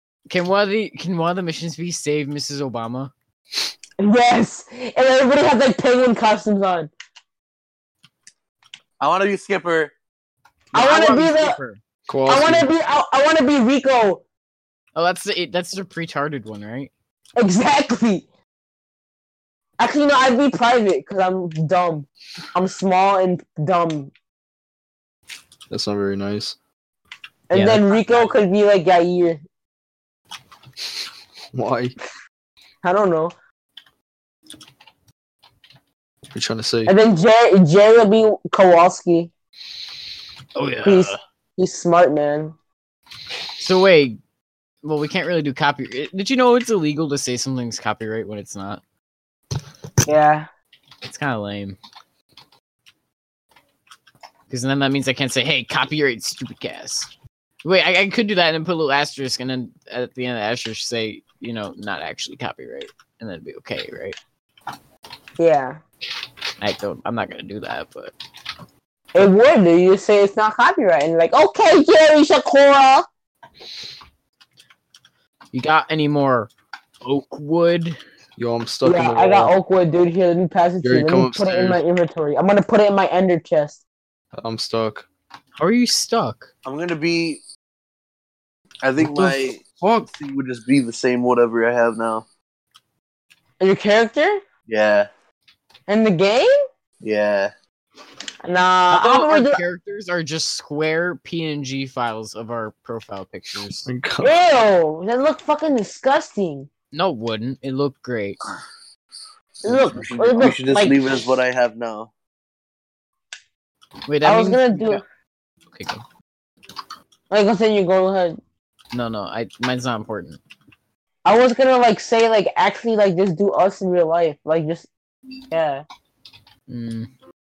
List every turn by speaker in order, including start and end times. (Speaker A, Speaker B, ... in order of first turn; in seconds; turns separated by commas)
Speaker A: 0.3-3.1, Speaker B: 4.0-6.9, Speaker C: 9.0-9.9, Speaker A: 10.7-11.8, Speaker B: 10.7-11.6, Speaker D: 12.1-12.7, Speaker B: 12.2-14.2, Speaker A: 14.9-16.9, Speaker B: 17.4-18.2, Speaker B: 19.8-24.1, Speaker D: 25.7-26.6, Speaker B: 27.5-29.4, Speaker A: 27.5-28.4, Speaker D: 31.5-32.0, Speaker B: 32.8-33.3, Speaker D: 36.3-36.9, Speaker B: 36.9-39.3, Speaker A: 40.5-41.2, Speaker B: 40.8-42.5, Speaker A: 43.6-44.2, Speaker A: 44.8-48.8, Speaker B: 50.0-50.5, Speaker A: 51.0-51.8, Speaker A: 54.5-57.1, Speaker A: 57.6-64.2, Speaker B: 65.4-65.8, Speaker A: 66.6-68.1, Speaker B: 69.2-73.1, Speaker A: 75.5-76.5, Speaker A: 77.0-78.0, Speaker D: 78.4-79.5, Speaker B: 78.8-83.8, Speaker D: 80.8-81.8, Speaker D: 84.3-85.1, Speaker A: 85.6-86.5, Speaker C: 86.7-87.4, Speaker C: 88.8-89.6, Speaker D: 89.0-90.1, Speaker C: 90.1-92.2, Speaker B: 93.6-94.4, Speaker C: 94.7-95.1, Speaker B: 95.9-96.5, Speaker C: 97.0-97.5, Speaker B: 98.4-99.6, Speaker A: 98.9-103.9, Speaker D: 103.9-104.3, Speaker B: 104.2-106.7, Speaker A: 106.9-108.4, Speaker B: 109.6-111.0, Speaker C: 109.7-112.1, Speaker A: 114.1-115.0, Speaker B: 114.2-115.0, Speaker A: 115.7-116.0, Speaker B: 117.3-118.4, Speaker A: 118.9-120.4, Speaker B: 121.2-124.9, Speaker B: 125.5-125.8, Speaker A: 126.7-127.1